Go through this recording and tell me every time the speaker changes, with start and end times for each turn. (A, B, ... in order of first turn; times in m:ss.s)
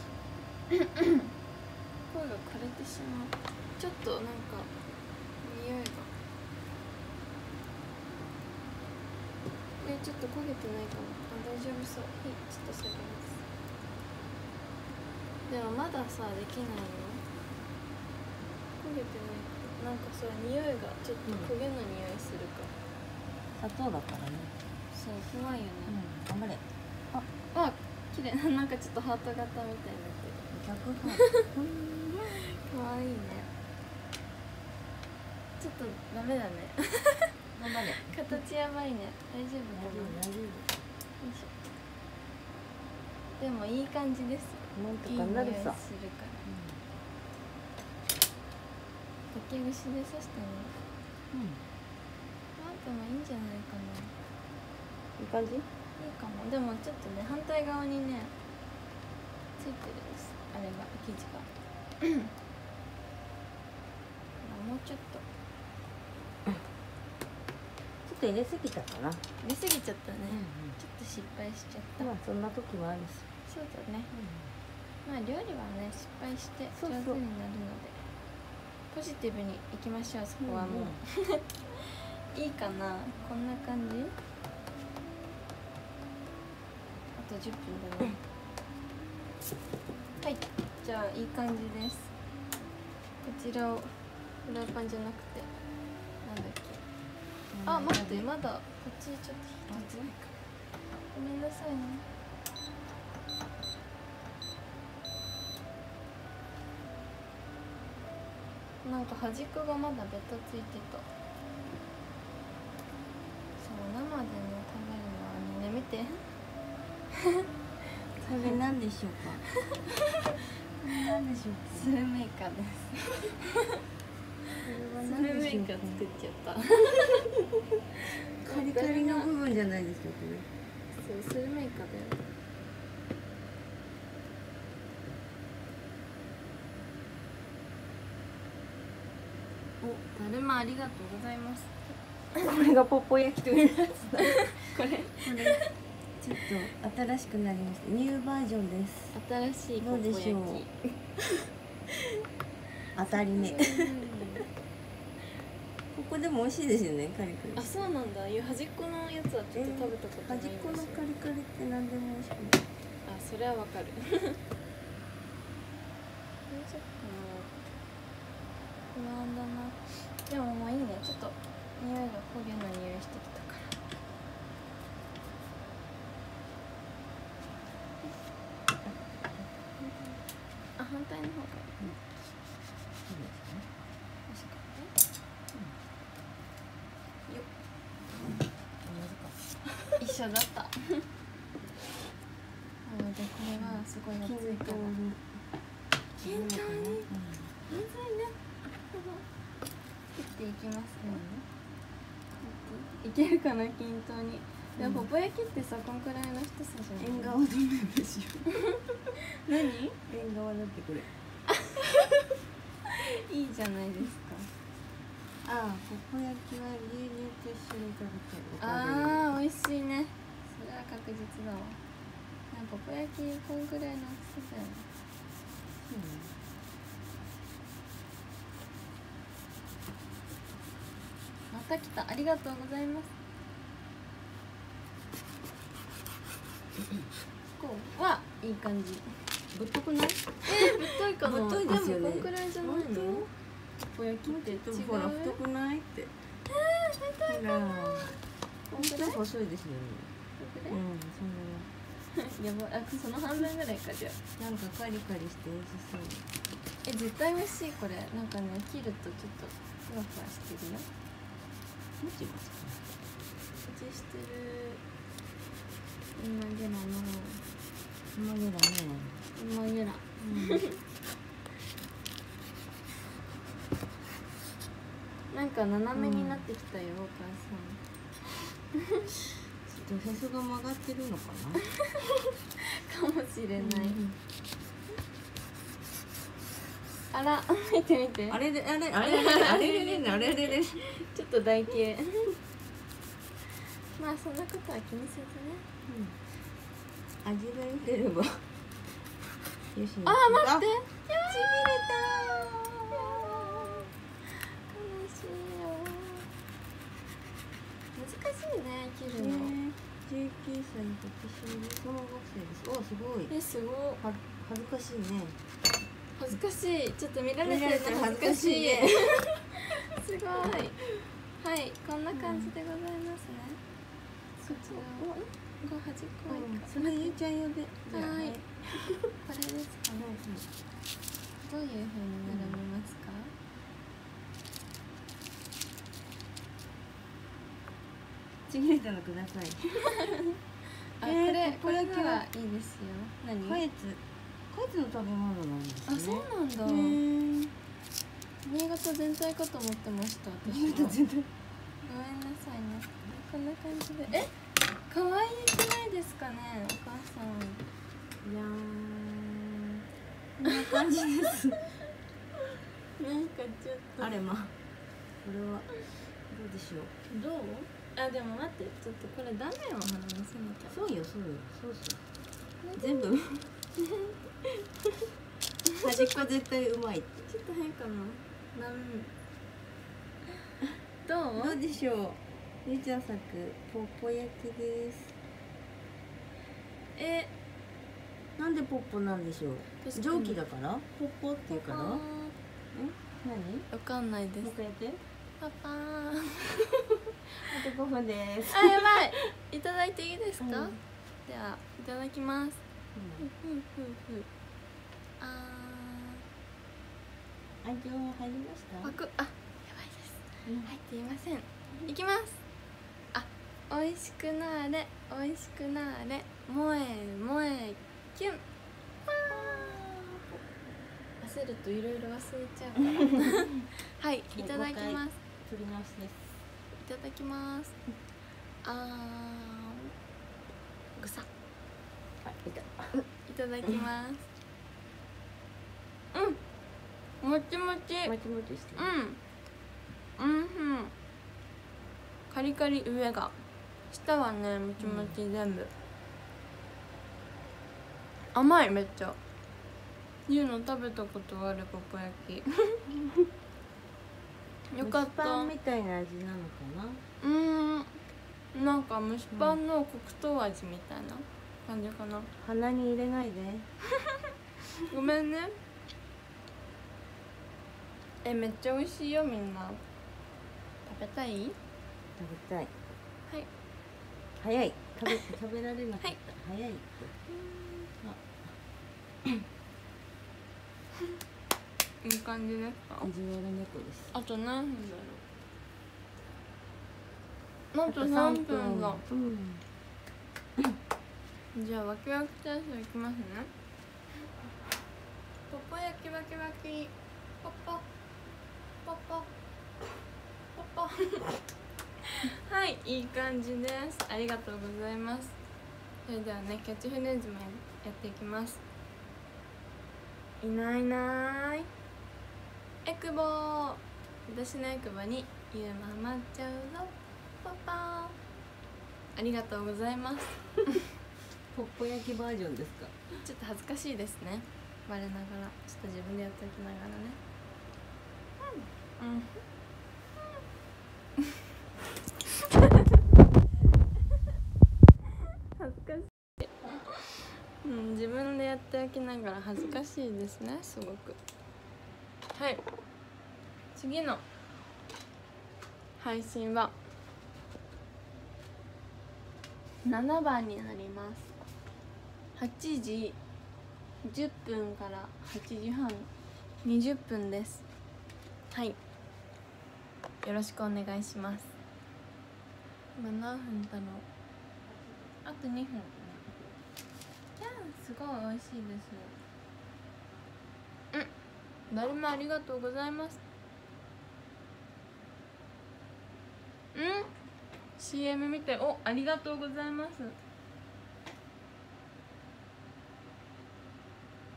0:00.7-0:01.3 A
0:02.1-0:04.7 A
0:05.4-0:06.1 A
0:09.8-0:13.4 A
0:15.5-0:17.2 A
0:18.8-0:22.7 A
0:21.2-0:21.5 B
0:23.6-0:24.5 B
0:24.9-0:26.0 A
0:25.8-0:27.2 B
0:27.5-0:30.4 A
0:30.5-0:32.4 B
0:31.2-0:31.5 A
0:32.2-0:33.5 A
0:35.6-0:37.3 A
0:37.6-0:38.4 B
0:38.0-0:40.2 A
0:39.7-0:40.7 B
0:41.2-0:41.5 A
0:43.4-0:46.4 A
0:44.7-0:45.8 B
0:46.4-0:46.8 B
0:49.3-0:50.7 A
0:51.3-0:51.6 B
0:52.6-0:54.1 A
0:55.2-0:55.7 B
0:56.0-0:58.3 A
0:59.6-1:01.5 A
1:02.0-1:02.3 A
1:04.4-1:05.2 A
1:08.0-1:09.2 B
1:09.4-1:12.1 A
1:10.3-1:10.8 B
1:12.0-1:13.2 B
1:13.4-1:14.1 A
1:14.1-1:14.5 B
1:15.0-1:18.0 A
1:16.7-1:17.2 B
1:18.9-1:24.1 A
1:20.4-1:21.0 B
1:27.2-1:28.2 A
1:30.2-1:32.1 A
1:33.2-1:33.9 A
1:34.4-1:35.5 A
1:36.2-1:36.8 A
1:37.5-1:38.3 B
1:37.6-1:40.2 A
1:39.7-1:40.1 B
1:41.1-1:42.0 A
1:48.8-1:51.0 A
1:53.6-1:56.2 A
1:58.2-1:58.6 A
1:58.2-1:59.4 B
2:00.8-2:01.9 B
2:01.7-2:03.5 A
2:04.6-2:06.0 B
2:05.0-2:07.2 A
2:08.4-2:09.3 A
2:08.4-2:10.5 B
2:10.9-2:12.2 A
2:19.8-2:21.9 A
2:22.3-2:24.4 B
2:24.5-2:25.7 A
2:25.2-2:25.6 B
2:26.2-2:29.2 B
2:29.1-2:30.8 A
2:29.8-2:30.6 B
2:32.9-2:33.9 B
2:33.1-2:34.4 A
2:35.9-2:37.7 B
2:37.5-2:41.1 A
2:39.5-2:42.6 B
2:43.0-2:44.4 A
2:46.5-2:47.5 A
2:48.9-2:53.8 A
2:58.9-2:59.4 B
2:59.8-3:00.2 A
3:00.8-3:02.0 A
3:03.1-3:03.6 B
3:04.3-3:04.9 A
3:08.8-3:09.3 B
3:10.0-3:11.1 A
3:12.8-3:14.9 A
3:13.6-3:15.2 B
3:16.2-3:17.5 B
3:16.2-3:17.0 A
3:17.7-3:18.3 A
3:18.9-3:19.2 A
3:20.1-3:21.2 A
3:21.0-3:21.4 B
3:22.4-3:27.4 A
3:24.8-3:25.1 B
3:27.0-3:28.5 B
3:29.4-3:30.0 A
3:30.1-3:31.1 B
3:32.9-3:34.5 A
3:35.4-3:39.3 B
3:38.6-3:41.8 A
3:42.5-3:44.8 A
3:45.9-3:46.3 B
3:51.5-3:53.1 A
3:57.6-3:59.2 A
3:59.5-4:03.3 B
4:00.4-4:03.3 A
4:03.9-4:05.4 A
4:04.2-4:06.1 B
4:06.5-4:08.0 A
4:07.2-4:08.2 B
4:08.7-4:10.1 B
4:08.7-4:09.2 A
4:10.4-4:10.8 A
4:10.7-4:11.7 B
4:12.1-4:14.2 A
4:14.4-4:16.2 B
4:16.8-4:20.9 A
4:22.0-4:22.8 B
4:23.6-4:24.8 A
4:26.1-4:27.4 A
4:28.1-4:29.2 B
4:29.3-4:30.8 A
4:30.2-4:30.6 B
4:35.3-4:39.2 A
4:36.0-4:36.4 B
4:39.7-4:41.6 B
4:41.9-4:44.0 A
4:43.6-4:44.2 B
4:47.1-4:48.4 A
4:48.3-4:50.8 B
4:49.0-4:52.4 A
4:54.0-4:55.6 A
4:55.9-4:56.1 B
4:57.2-4:58.4 B
4:59.7-5:00.7 B
5:00.0-5:06.3 A
5:07.9-5:09.6 A
5:09.2-5:13.3 B
5:13.3-5:14.0 A
5:14.0-5:15.4 B
5:16.2-5:20.8 A
5:17.4-5:19.4 B
5:21.4-5:23.6 A
5:22.1-5:22.5 B
5:24.4-5:27.2 A
5:24.5-5:25.2 B
5:26.3-5:29.0 B
5:27.9-5:28.4 A
5:29.2-5:30.2 A
5:30.0-5:30.4 B
5:31.4-5:33.3 A
5:32.3-5:32.6 B
5:38.5-5:40.0 B
5:41.0-5:43.6 A
5:41.0-5:42.2 B
5:43.4-5:47.5 B
5:45.9-5:47.0 A
5:48.4-5:51.0 A
5:50.4-5:51.3 B
5:51.8-5:57.6 A
5:58.2-5:59.6 B
6:00.4-6:01.6 B
6:03.0-6:04.2 A
6:04.0-6:04.5 B
6:05.2-6:05.7 B
6:06.3-6:06.9 B
6:07.1-6:10.8 A
6:10.7-6:12.0 B
6:12.6-6:13.1 A
6:12.8-6:13.5 B
6:15.7-6:16.2 A
6:15.8-6:17.3 B
6:17.3-6:19.1 A
6:21.0-6:21.6 A
6:21.4-6:25.1 B
6:27.0-6:27.3 A
6:28.4-6:32.0 B
6:29.8-6:30.4 A
6:31.5-6:32.3 A
6:32.7-6:33.7 B
6:33.7-6:34.5 A
6:34.4-6:35.0 B
6:35.4-6:36.7 A
6:37.5-6:39.2 B
6:38.5-6:42.6 A
6:40.4-6:40.8 B
6:42.9-6:43.2 B
6:43.2-6:44.3 A
6:45.2-6:46.2 A
6:47.6-6:48.9 B
6:48.8-6:52.4 A
6:53.1-6:58.4 A
6:59.1-7:00.0 A
7:01.2-7:05.2 A
7:04.3-7:06.4 B
7:06.8-7:07.7 A
7:08.6-7:09.9 A
7:11.0-7:11.3 A
7:12.2-7:13.0 B
7:13.2-7:14.3 A
7:16.1-7:16.4 A
7:17.2-7:18.1 A
7:18.0-7:18.9 B
7:18.8-7:19.2 A
7:20.2-7:20.9 A
7:22.3-7:23.4 A
7:23.9-7:25.7 A
7:24.8-7:25.2 B
7:28.3-7:29.2 A
7:30.3-7:32.8 A
7:34.7-7:35.5 A
7:34.8-7:37.0 B
7:37.2-7:38.0 A
7:38.5-7:42.3 A
7:39.3-7:39.6 B
7:42.4-7:43.7 B
7:44.8-7:45.6 A
7:48.2-7:49.8 A
7:50.8-7:51.6 A
7:52.2-7:52.7 B
7:54.4-7:57.1 B
7:57.3-7:57.9 A
8:02.0-8:03.1 A
8:03.0-8:04.2 B
8:04.1-8:05.2 A
8:07.7-8:09.0 A
8:07.9-8:09.6 B
8:11.5-8:13.5 A
8:15.5-8:17.8 A
8:18.8-8:19.3 A
8:20.5-8:21.3 A
8:22.3-8:25.4 A
8:26.0-8:28.6 A
8:30.4-8:31.7 A
8:32.8-8:38.2 A
8:39.1-8:40.8 A
8:41.5-8:42.9 B
8:43.2-8:47.2 A
8:49.0-8:49.4 A
8:55.6-9:01.2 A
9:02.3-9:02.6 A
9:03.7-9:04.2 A
9:06.0-9:06.8 A
9:09.8-9:11.3 A
9:12.3-9:13.2 A
9:14.0-9:16.1 A
9:16.6-9:17.6 A
9:18.5-9:18.8 A
9:20.2-9:21.5 A
9:23.0-9:24.1 A
9:25.2-9:26.5 A
9:27.4-9:29.2 A
9:31.7-9:33.2 A
9:36.7-9:37.1 A
9:37.8-9:40.2 A